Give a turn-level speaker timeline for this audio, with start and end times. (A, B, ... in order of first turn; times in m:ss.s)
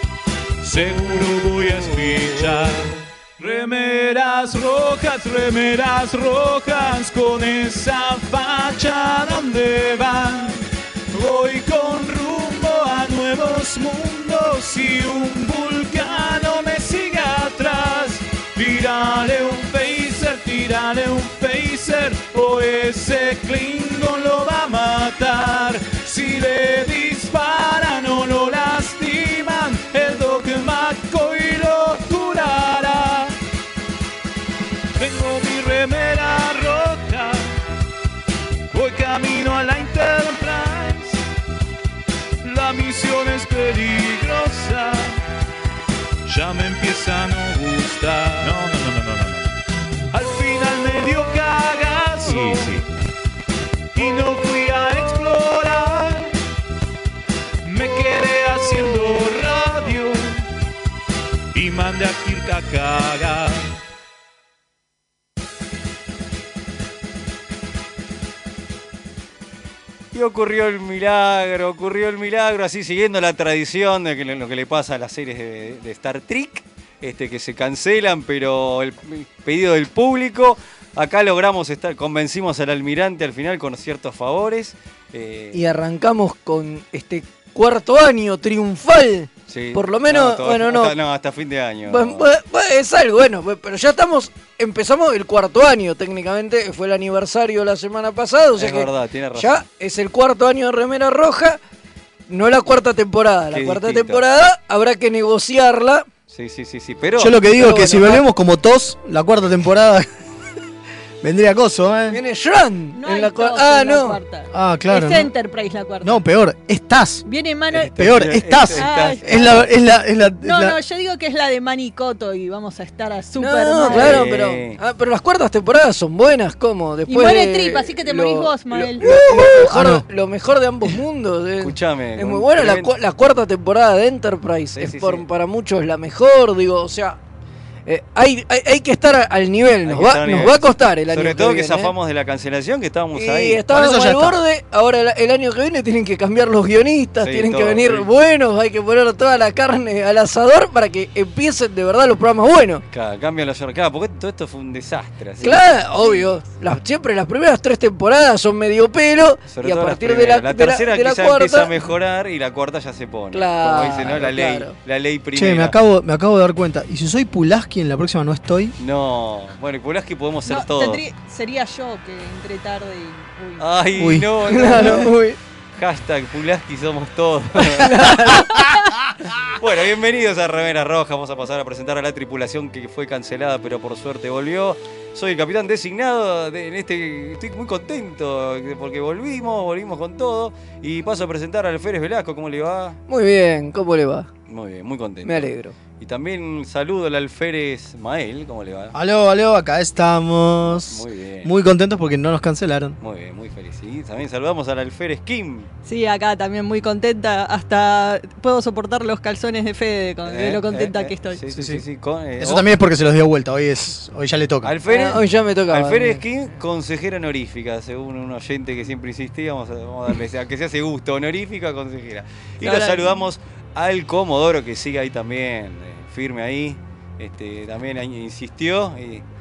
0:00.6-0:33.3 A
0:35.0-0:37.5 A
0:38.7-0:41.2 A
0:42.4-0:45.2 A
0:46.3-0:49.5 A
0:50.1-0:52.8 A
0:54.0-0:56.3 A
0:57.6-1:00.4 A
1:01.5-1:03.7 A
1:10.1-1:25.6 B
1:25.5-1:30.9 C
1:29.5-1:32.3 B
1:31.9-1:41.6 C
1:38.6-1:39.6 B
1:42.3-1:46.1 C
1:43.5-1:44.2 B
1:46.3-1:47.4 B
1:47.2-1:50.1 D
1:47.6-1:48.2 C
1:51.2-1:52.2 D
1:52.1-1:54.2 C
1:53.0-1:56.2 E
1:54.5-1:55.3 D
1:56.0-2:00.8 D
1:57.3-1:57.9 E
1:57.9-1:59.7 B
1:58.8-1:59.6 E
2:00.4-2:04.2 E
2:03.4-2:17.2 C
2:03.9-2:04.8 B
2:07.1-2:09.0 E
2:09.0-2:10.0 D
2:11.6-2:12.9 B
2:14.8-2:15.2 B
2:17.9-2:21.9 C
2:19.9-2:23.6 B
2:23.2-2:32.8 C
2:23.7-2:24.4 D
2:27.2-2:28.1 B
2:32.9-2:35.6 B
2:35.4-2:41.7 C
2:36.0-2:36.4 E
2:39.5-2:45.8 B
2:43.3-2:44.8 C
2:45.4-2:48.8 D
2:48.8-2:51.0 B
2:50.5-2:53.7 E
2:53.6-2:55.1 B
2:54.0-2:54.3 D
2:54.5-2:55.4 C
2:55.8-2:58.4 B
2:57.6-2:58.5 C
2:59.6-3:13.0 B
3:13.1-3:14.3 C
3:14.5-3:18.9 B
3:15.2-3:15.8 C
3:18.9-3:23.0 D
3:20.6-3:21.5 B
3:23.0-3:25.7 B
3:25.8-3:31.4 E
3:30.2-3:32.7 B
3:31.5-3:31.8 D
3:32.4-3:34.7 D
3:34.6-3:49.2 B
3:34.9-3:36.2 C
3:42.6-3:43.2 C